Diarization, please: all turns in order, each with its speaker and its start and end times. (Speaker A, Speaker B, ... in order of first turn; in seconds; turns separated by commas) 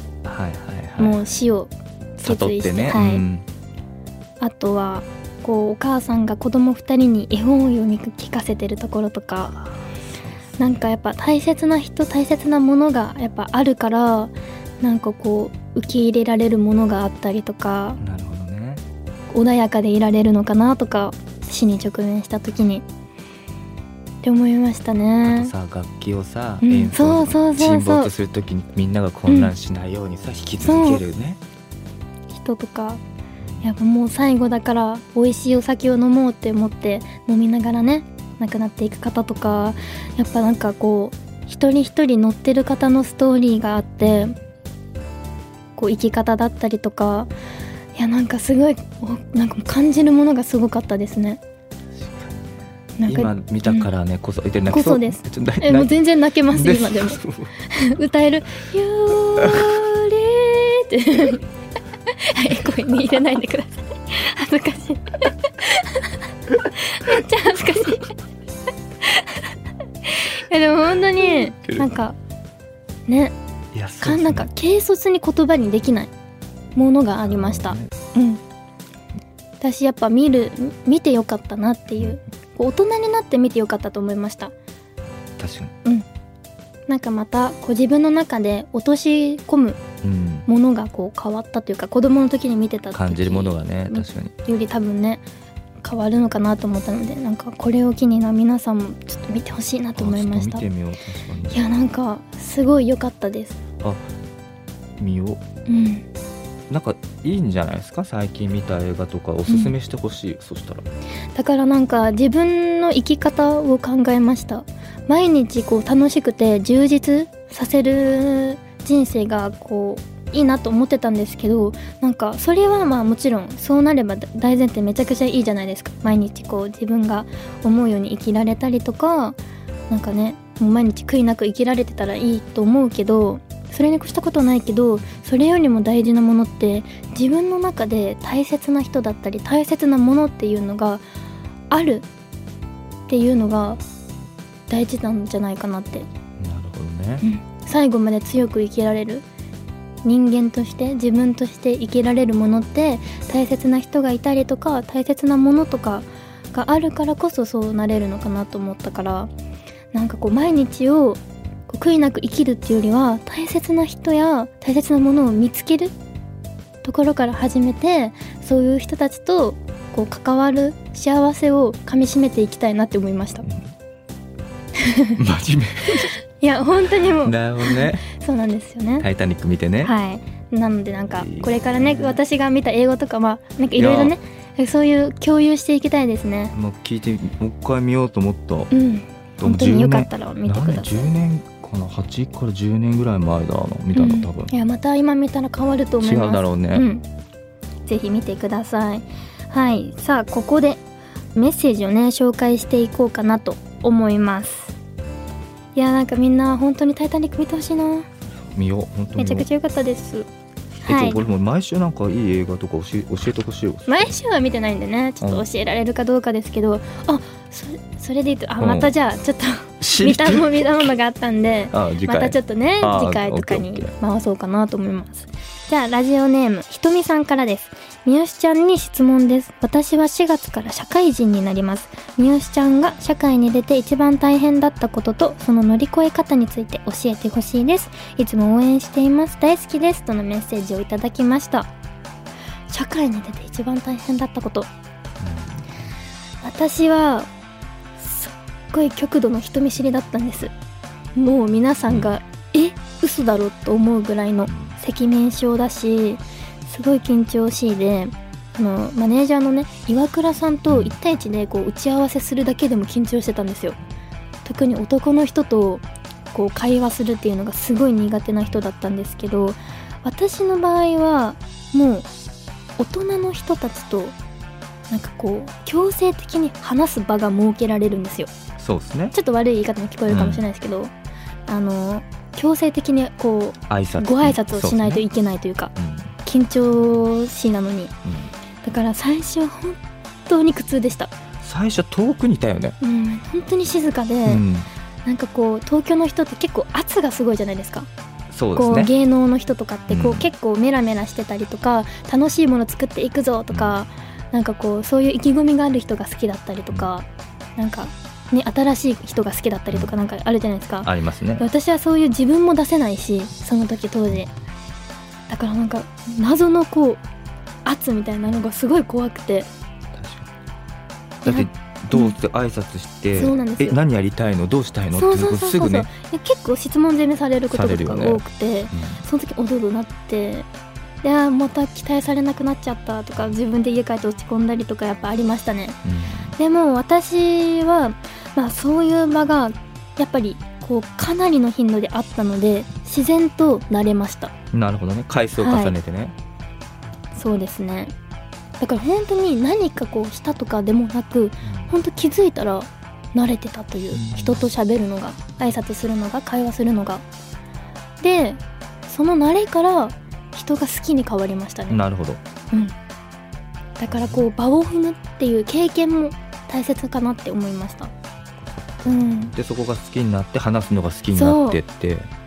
Speaker A: 0.2-1.2, Speaker B: 1.0-3.2, Speaker A: 2.2-3.5, Speaker B: 4.4-9.7, Speaker A: 10.1-10.8, Speaker B: 10.6-18.0, Speaker A: 18.0-18.8, Speaker B: 19.3-22.8, Speaker B: 24.2-25.5, Speaker A: 25.2-31.4, Speaker B: 26.6-28.1, Speaker B: 29.3-29.5, Speaker B: 30.6-31.0, Speaker B: 32.3-33.0, Speaker B: 33.6-44.4, Speaker A: 44.0-44.4, Speaker B: 45.8-47.3, Speaker B: 48.0-51.4, Speaker A: 51.9-55.9, Speaker B: 53.0-53.9, Speaker B: 54.7-61.4, Speaker A: 56.5-57.5, Speaker A: 59.4-59.9, Speaker B: 62.1-66.2, Speaker B: 66.7-68.1, Speaker B: 69.0-69.5, Speaker B: 70.0-72.2, Speaker A: 71.2-71.9, Speaker B: 73.1-73.3, Speaker A: 73.7-74.5, Speaker B: 74.0-76.1, Speaker B: 76.8-78.4, Speaker A: 77.2-77.9, Speaker B: 79.6-84.5, Speaker A: 85.4-85.7, Speaker B: 86.9-89.8, Speaker A: 90.0-90.5, Speaker B: 90.5-95.2, Speaker A: 92.9-94.3, Speaker B: 95.8-100.6, Speaker A: 100.0-101.6, Speaker B: 101.5-103.6, Speaker A: 105.0-105.4, Speaker B: 105.7-106.0, Speaker A: 106.7-110.8, Speaker B: 109.5-109.7, Speaker B: 111.3-129.4, Speaker B: 129.9-141.0, Speaker B: 141.7-142.1, Speaker B: 143.1-143.8, Speaker B: 144.7-146.1, Speaker A: 146.4-147.2, Speaker B: 147.2-149.2, Speaker B: 150.0-159.3, Speaker B: 159.9-165.9, Speaker B: 166.8-173.4, Speaker B: 174.8-175.2, Speaker A: 175.2-176.2, Speaker B: 176.4-179.1, Speaker A: 177.1-178.0, Speaker A: 179.0-179.9, Speaker B: 179.8-186.5, Speaker A: 181.2-182.2, Speaker A: 183.8-184.1, Speaker A: 186.5-188.7, Speaker B: 188.7-191.1, Speaker A: 189.4-194.5, Speaker B: 193.9-197.0, Speaker A: 196.0-196.9, Speaker B: 197.8-200.8, Speaker B: 201.3-204.7, Speaker B: 205.7-208.1, Speaker A: 208.4-209.5, Speaker B: 209.2-210.3, Speaker B: 210.8-211.2, Speaker A: 210.8-214.1, Speaker B: 213.9-241.7, Speaker A: 215.2-215.4, Speaker A: 218.6-218.9, Speaker A: 219.8-220.9, Speaker A: 221.7-223.9, Speaker B: 242.7-244.7, Speaker A: 245.2-245.7, Speaker B: 246.4-247.3, Speaker B: 248.0-250.5, Speaker B: 251.2-263.8, Speaker A: 251.9-252.1, Speaker A: 254.5-254.8, Speaker A: 260.7-260.9, Speaker B: 264.4-272.1, Speaker B: 272.8-274.1, Speaker B: 274.9-278.3, Speaker A: 278.6-279.1, Speaker B: 279.1-280.9, Speaker A: 280.1-280.4, Speaker B: 281.5-285.7, Speaker A: 283.7-285.0, Speaker A: 285.8-286.1, Speaker B: 286.2-287.9, Speaker A: 288.0-288.3, Speaker B: 288.6-291.1, Speaker A: 291.4-292.8, Speaker B: 292.8-294.4, Speaker A: 294.2-294.7, Speaker B: 295.0-297.9, Speaker A: 298.3-298.9, Speaker B: 298.5-307.1, Speaker A: 299.9-300.3, Speaker A: 303.5-303.8, Speaker B: 307.6-314.3, Speaker A: 310.8-311.4, Speaker B: 315.3-317.0, Speaker B: 317.6-319.5, Speaker A: 319.9-320.3, Speaker A: 321.2-325.9, Speaker B: 321.2-322.1, Speaker B: 323.1-323.8, Speaker B: 324.9-330.5, Speaker A: 327.5-329.0, Speaker B: 331.0-335.8, Speaker A: 335.8-336.3, Speaker B: 336.4-344.3, Speaker A: 344.5-346.1, Speaker B: 345.4-345.7, Speaker B: 347.1-347.9, Speaker B: 348.6-357.0, Speaker A: 351.4-351.7, Speaker A: 353.9-354.5, Speaker B: 358.0-361.8, Speaker A: 361.7-362.2, Speaker B: 363.8-367.9, Speaker A: 363.9-364.2, Speaker A: 368.2-372.1, Speaker B: 368.8-369.3, Speaker B: 371.1-371.6